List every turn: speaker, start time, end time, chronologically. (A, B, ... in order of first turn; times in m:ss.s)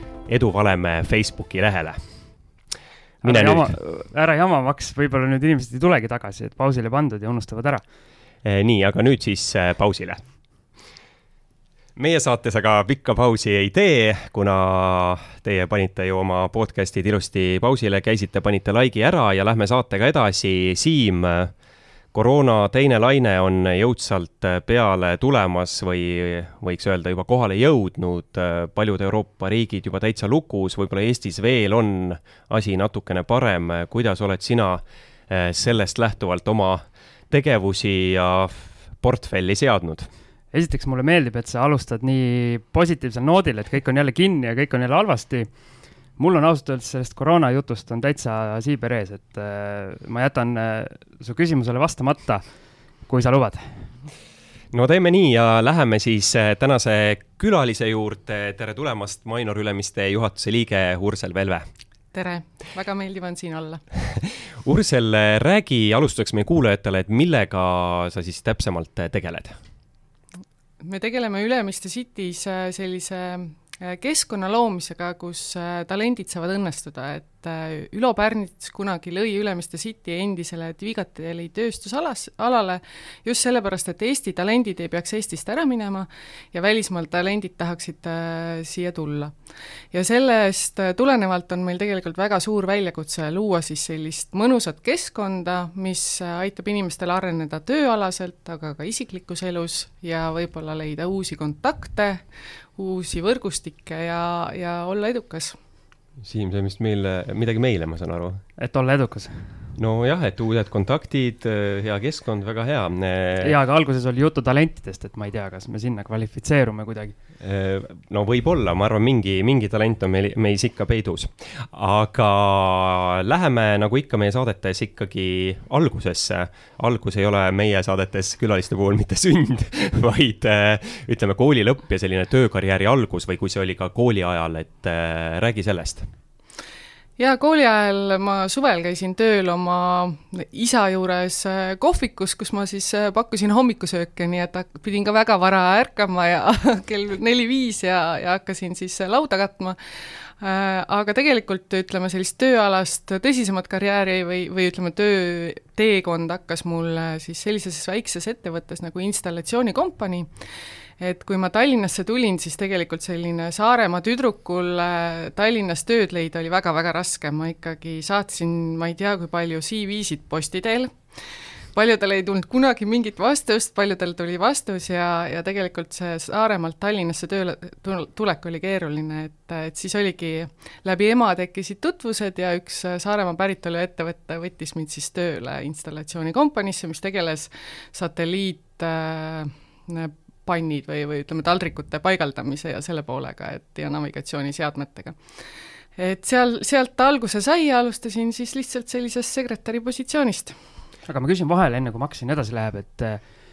0:00.3-0:02.0 A
0:03.2-0:03.8 A
0:03.2-0:07.8 B
0:08.4-0:10.2 A
0:12.0-0:21.5 A
0:22.1-0:40.1 A
0:40.5-0:45.5 B
0:46.2-0:52.4 B
0:53.1-0:53.9 B
0:54.7-1:01.7 A
1:02.1-1:03.8 C
1:04.2-1:09.6 A
1:10.8-1:29.3 C
1:29.9-1:42.2 C
1:42.8-1:45.6 C
1:46.2-1:48.4 A
1:48.6-1:49.8 B
1:49.8-1:53.6 A
1:53.4-1:57.2 B
1:57.4-2:16.1 A
2:17.2-2:40.3 C
2:41.0-2:51.0 C
2:51.7-3:15.2 C
3:16.0-3:20.6 C
3:21.1-3:23.2 B